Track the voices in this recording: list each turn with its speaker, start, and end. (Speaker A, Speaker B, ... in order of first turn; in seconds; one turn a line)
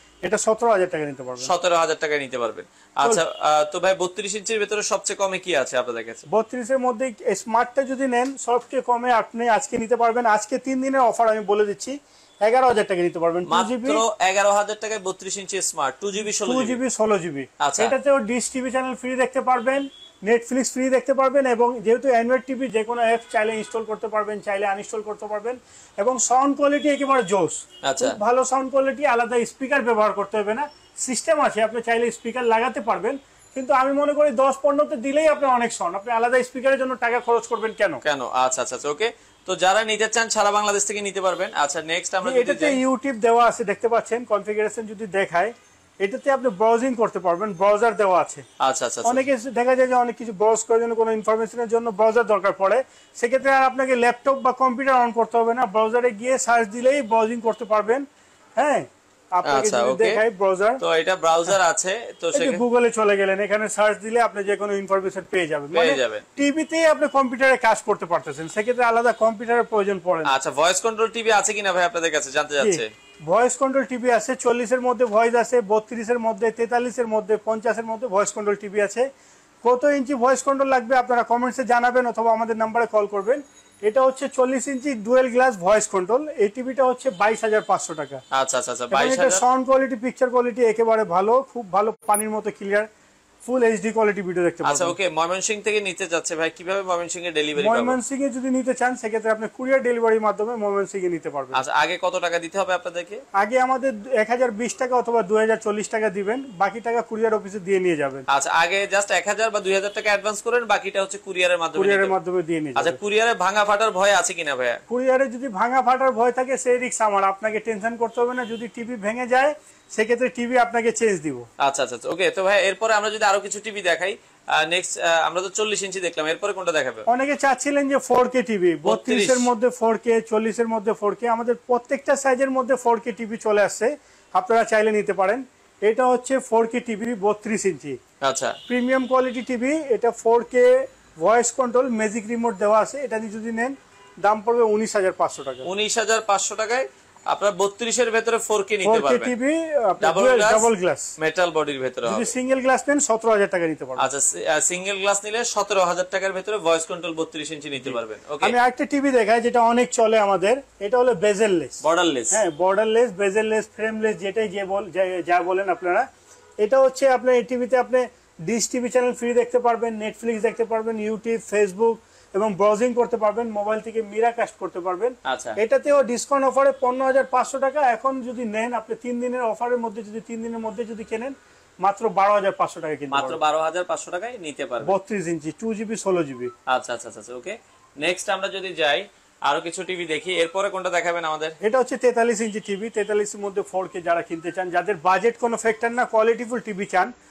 Speaker A: 0.2-1.5
Speaker B: 1.4-6.2
Speaker A: 6.3-14.0
Speaker B: 13.5-16.8
Speaker A: 16.2-38.0
Speaker B: 17.6-17.9
Speaker B: 27.8-28.2
Speaker B: 38.0-42.8
Speaker A: 42.2-48.5
Speaker B: 48.6-49.3
Speaker A: 49.0-58.0
Speaker A: 58.6-60.8
Speaker B: 59.4-60.2
Speaker B: 60.8-62.6
Speaker A: 62.3-70.3
Speaker B: 65.7-66.2
Speaker B: 70.2-72.9
Speaker A: 72.6-79.1
Speaker A: 79.6-88.2
Speaker B: 88.3-89.4
Speaker A: 88.9-92.9
Speaker A: 93.5-95.0
Speaker B: 94.6-98.0
Speaker A: 97.6-101.6
Speaker B: 101.5-103.2
Speaker A: 103.3-108.2
Speaker B: 108.3-112.1
Speaker A: 111.8-113.0
Speaker B: 112.8-114.8
Speaker A: 114.9-121.5
Speaker B: 121.6-127.1
Speaker A: 127.1-138.0
Speaker B: 128.8-129.5
Speaker B: 138.2-138.6
Speaker A: 138.7-145.7
Speaker B: 145.7-149.3
Speaker A: 148.8-151.1
Speaker B: 150.0-152.3
Speaker A: 152.1-154.1
Speaker B: 154.0-158.6
Speaker A: 157.8-161.8
Speaker B: 161.8-162.4
Speaker A: 162.3-166.1
Speaker A: 166.6-183.4
Speaker B: 175.3-175.6
Speaker B: 183.1-184.9
Speaker A: 184.8-186.5
Speaker B: 186.7-191.6
Speaker A: 191.6-197.1